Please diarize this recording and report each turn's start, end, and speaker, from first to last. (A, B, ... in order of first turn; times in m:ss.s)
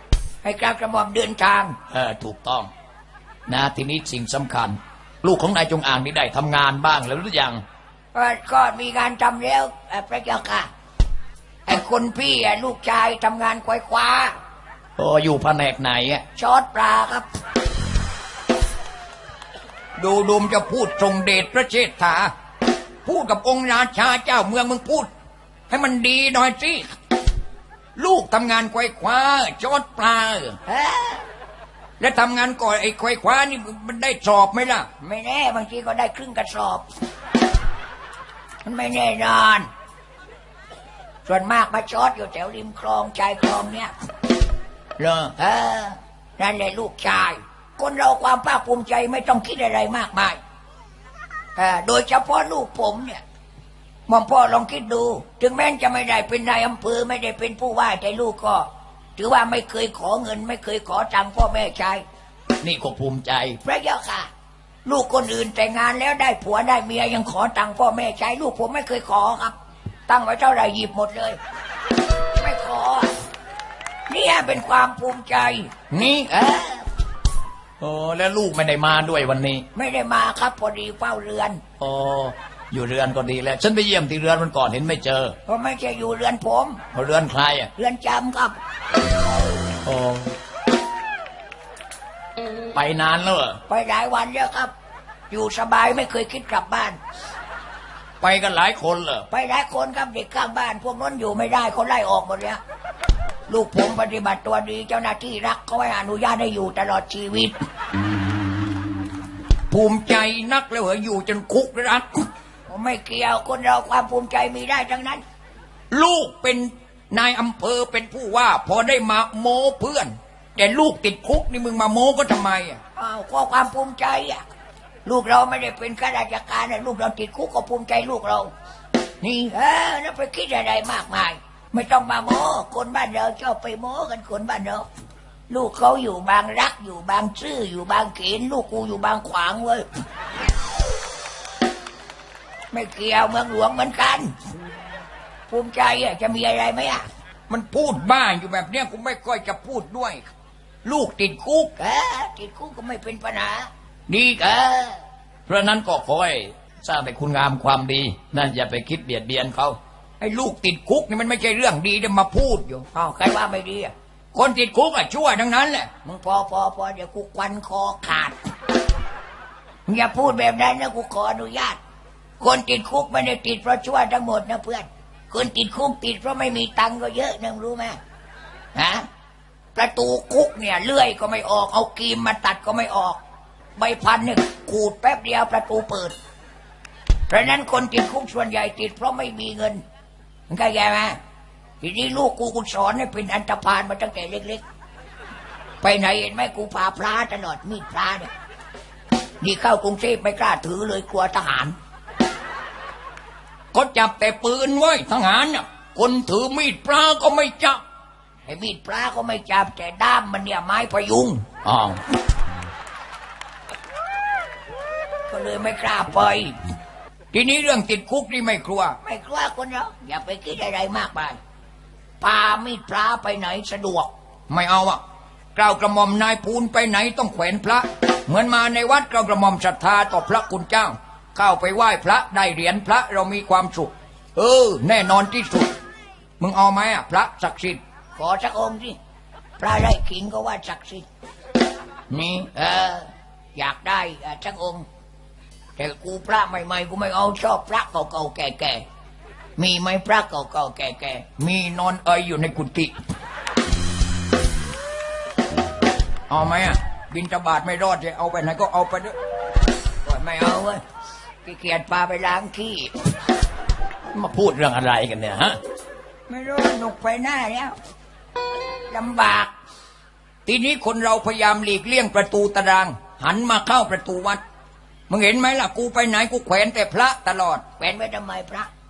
0:00.4-0:01.8 A
0:01.9-0:02.7 B
0:03.5-0:07.6 B
0:08.1-0:10.7 A
0:11.7-0:14.4 A
0:15.0-0:16.2 B
0:16.4-0:17.3 A
0:20.0-0:22.3 B
0:23.0-0:25.1 B
0:25.7-0:26.9 B
0:28.0-0:30.6 B
0:30.7-0:31.2 A
0:32.0-0:35.0 B
0:35.0-0:36.9 A
0:38.6-0:39.7 A
0:41.3-0:43.9 A
0:45.0-0:50.4 A
0:51.6-0:53.2 A
0:54.1-1:02.0 A
1:02.6-1:03.6 B
1:03.6-1:04.3 A
1:04.8-1:09.6 A
1:10.1-1:11.4 A
1:12.4-1:13.1 A
1:14.1-1:16.9 A
1:15.9-1:16.2 B
1:17.8-1:19.7 B
1:19.8-1:21.6 A
1:21.8-1:25.4 B
1:25.5-1:26.8 A
1:26.9-1:27.7 B
1:27.8-1:28.6 A
1:29.8-1:30.3 B
1:32.7-1:33.6 B
1:33.7-1:34.7 A
1:35.3-1:37.0 A
1:38.2-1:39.3 B
1:39.3-1:42.6 A
1:43.5-1:47.6 A
1:49.7-1:52.2 B
1:52.7-1:55.2 A
1:55.9-2:02.8 B
2:03.0-2:04.5 A
2:05.0-2:08.5 A
2:09.2-2:09.5 B
2:09.5-2:14.9 A
2:15.5-2:19.9 A
2:22.7-2:24.3 A
2:25.5-2:27.1 A
2:27.5-2:30.3 B
2:30.8-2:31.7 B
2:31.8-2:35.0 A
2:35.5-2:42.9 B
2:42.9-2:43.9 A
2:44.3-2:46.0 B
2:46.0-2:48.4 A
2:49.9-2:51.8 A
2:52.4-2:58.0 A
2:58.8-2:59.1 A
2:59.8-3:03.2 A
3:03.8-3:06.2 A
3:07.3-3:09.8 A
3:10.5-3:11.2 A
3:11.8-3:14.6 A
3:15.8-3:18.3 A
3:19.4-3:21.8 A
3:23.7-3:27.8 B
3:28.5-3:31.4 A
3:31.6-3:32.0 B
3:35.3-3:36.5 A
3:37.3-3:39.0 B
3:39.0-3:41.4 A
3:42.2-3:44.1 A
3:44.5-3:45.0 B
3:45.6-3:55.7 B
3:56.4-3:57.8 B
3:58.2-3:59.0 A
3:59.6-4:01.1 A
4:02.1-4:02.5 B
4:02.5-4:04.9 A
4:05.8-4:08.8 A
4:09.6-4:11.5 A
4:11.5-4:12.9 B
4:16.3-4:19.1 B
4:20.0-4:20.8 A
4:21.5-4:22.9 A
4:24.1-4:25.6 B
4:26.3-4:27.8 A
4:28.9-4:29.5 A
4:30.5-4:34.4 B
4:35.1-4:37.6 B
4:37.8-4:38.7 A